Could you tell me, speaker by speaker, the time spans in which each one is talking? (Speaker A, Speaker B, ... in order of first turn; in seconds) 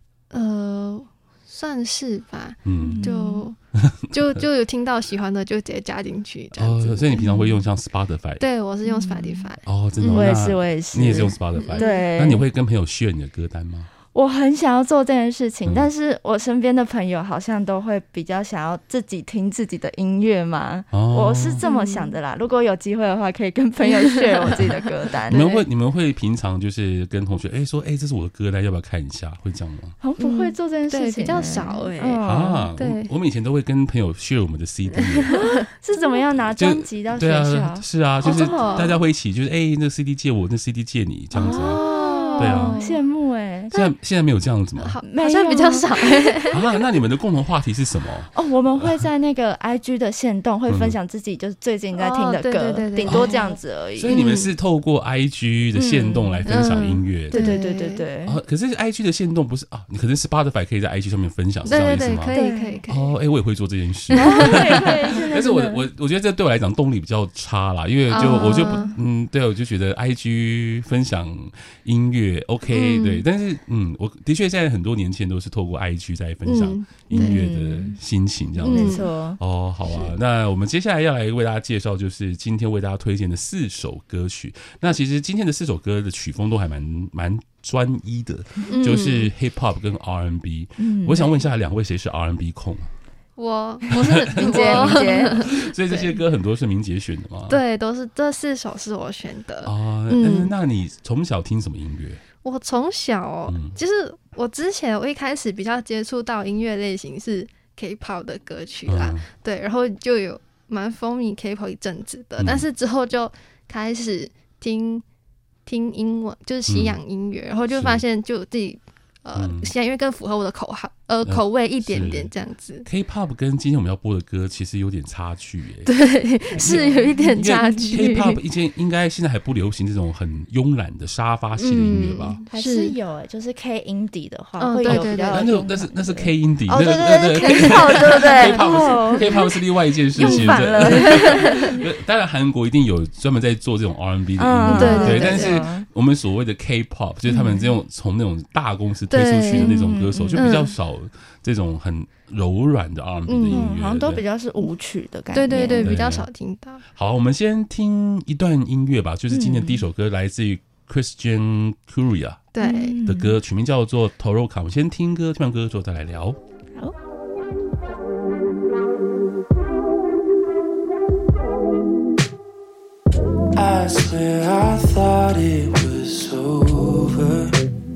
Speaker A: 0.3-3.5, 4.1-7.1, 8.4-10.3, 11.6-12.0, 21.6-22.1, 23.8-24.5, 30.2-32.2, 32.8-33.1, 35.1-36.2, 38.2-38.9, 41.4-43.0, 44.8-46.6, 51.9-53.5, 54.1-54.5, 56.5-58.0, 61.6-63.1, 64.2-64.9, 68.1-68.9, 72.7-73.2, 76.5-77.4, 78.6-79.1, 88.7-89.3, 93.4-96.2, 97.5-100.5, 102.4-115.0, 115.7-122.8, 125.8-128.4, 131.6-132.9, 134.6-135.4, 137.4-139.5, 140.2-141.7, 144.7-145.6, 149.1-149.8, 150.3-150.7, 153.3-153.6, 155.3-156.8, 162.5-162.9
Speaker B: 2.6-3.1, 3.7-4.4, 6.5-8.4, 9.7-13.9, 20.9-21.6, 25.3-29.9, 32.2-35.4, 36.5-41.8, 42.4-42.8, 43.7-45.0, 46.5-49.0, 50.7-51.0, 53.0-53.4, 54.0-57.5, 58.2-62.4, 62.9-92.9, 93.9-97.6, 99.6-102.2, 103.5-103.8, 108.9-109.2, 112.4-112.7, 116.7-117.0, 117.7-118.0, 119.3-119.7, 121.2-122.3, 122.8-125.9, 126.5-132.4, 134.8-154.2, 155.8-156.3, 156.9-162.5, 163.0-166.4
Speaker C: 2.8-3.5, 7.2-7.6, 8.8-9.5, 10.1-12.4, 14.1-25.6, 30.0-32.7, 35.3-38.9, 41.3-43.9, 45.0-46.6, 48.3-54.2, 55.7-56.5, 57.3-58.4, 62.3-62.8, 64.2-65.8, 68.1-68.9, 77.1-78.0, 78.6-79.4, 90.8-91.3, 94.3-95.5, 132.5-139.3, 140.2-141.8, 144.4-145.8, 149.5-150.6, 153.5-156.0, 159.3-159.8, 162.6-163.4
Speaker D: 173.5-177.6